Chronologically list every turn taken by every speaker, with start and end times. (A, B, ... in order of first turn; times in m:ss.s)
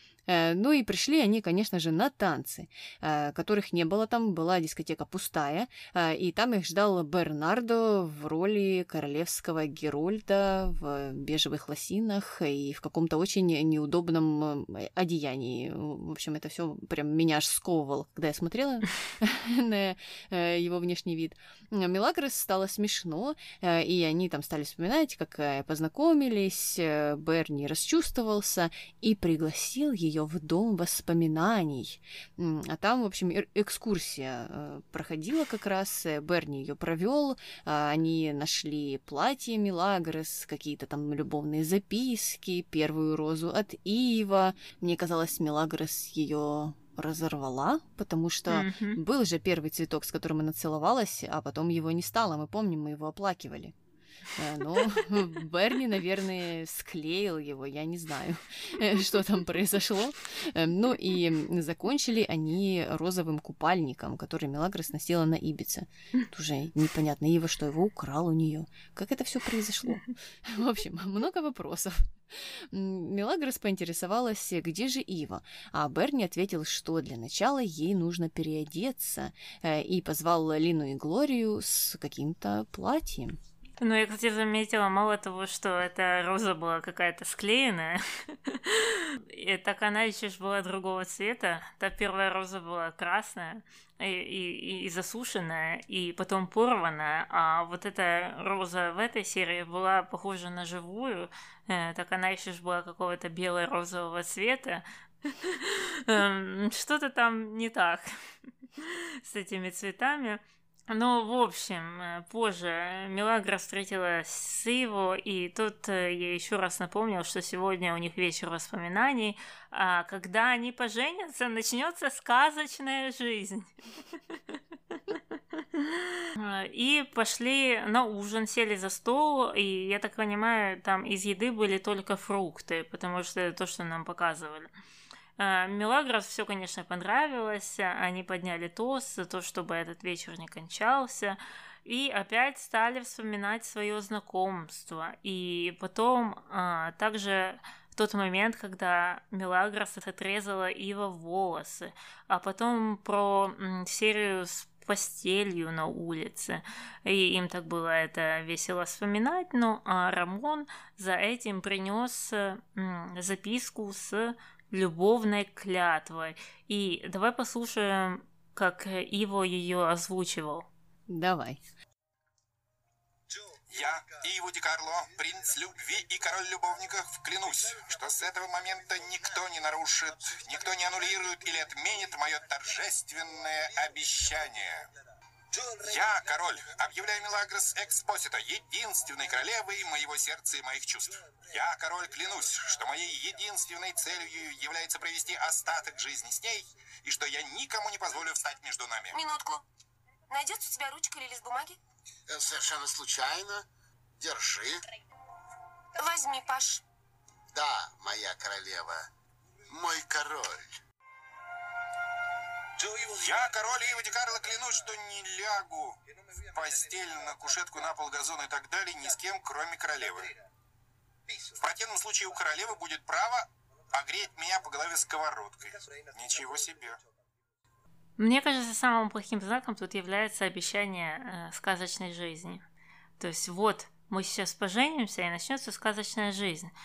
0:00.3-0:53.7 A
0:48.5-0:49.0 B
0:54.4-1:23.4 A
1:23.8-1:48.1 B
1:48.8-2:14.7 B
2:15.4-2:50.7 B
2:51.1-2:51.6 A
2:53.7-3:04.9 C
3:05.6-3:19.2 C
3:19.1-3:19.6 D
3:20.3-3:21.8 D
3:22.3-3:23.7 E
3:24.2-3:24.8 E
3:26.0-3:26.8 D
3:27.5-3:29.0 E
3:29.7-3:30.7 E
3:32.8-3:36.0 C
3:36.5-3:40.3 C
3:41.4-3:47.0 C
3:48.2-3:52.6 B
3:53.2-3:56.7 B